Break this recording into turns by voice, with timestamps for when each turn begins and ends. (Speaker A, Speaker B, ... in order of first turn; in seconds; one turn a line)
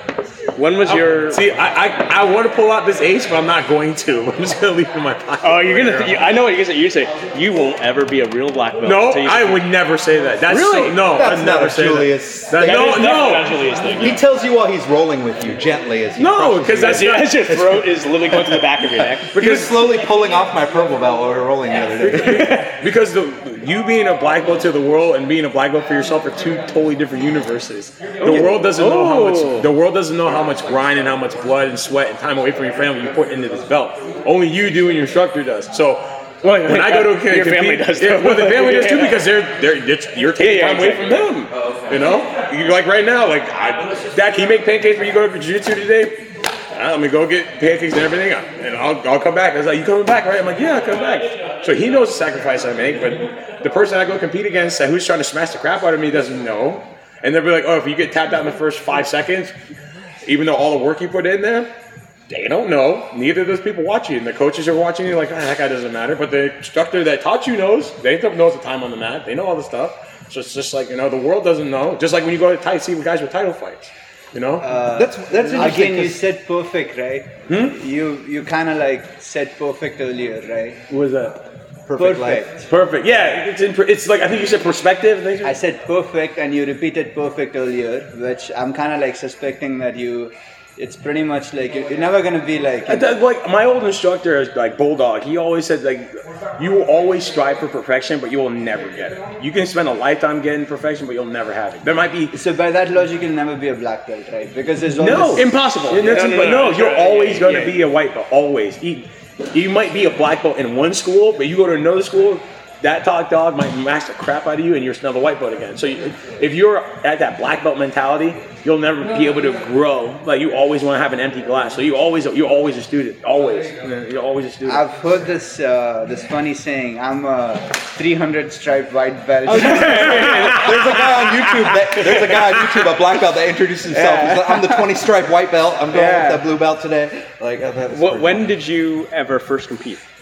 Speaker A: 0.6-1.4
Speaker B: 0.8-6.3
Speaker A: 5.4-9.6
Speaker B: 8.8-13.7
Speaker A: 10.5-11.0
Speaker C: 11.0-13.0
Speaker A: 12.6-14.2
Speaker C: 14.0-17.3
Speaker B: 16.2-18.6
Speaker A: 16.8-19.4
Speaker C: 19.3-22.6
Speaker B: 19.3-19.9
Speaker B: 21.9-59.5
Speaker A: 22.1-22.7
Speaker A: 28.2-29.7
Speaker C: 28.2-28.5
Speaker A: 36.4-39.3
Speaker A: 40.4-41.3
Speaker B: 60.2-61.7
Speaker B: 62.3-74.7
Speaker D: 74.6-80.8
Speaker C: 74.9-76.2
Speaker B: 77.5-77.8
Speaker B: 80.9-81.4
Speaker C: 81.9-82.5
Speaker D: 82.0-82.6
Speaker B: 82.6-85.6
Speaker D: 85.4-93.1
Speaker B: 92.9-102.3
Speaker D: 102.3-105.5
Speaker B: 104.9-124.8
Speaker A: 105.3-107.8
Speaker D: 124.7-130.6
Speaker C: 129.5-138.6
Speaker A: 129.5-130.9
Speaker B: 129.6-130.5
Speaker B: 132.3-132.7
Speaker D: 133.9-135.1
Speaker D: 135.9-136.5
Speaker A: 137.9-140.0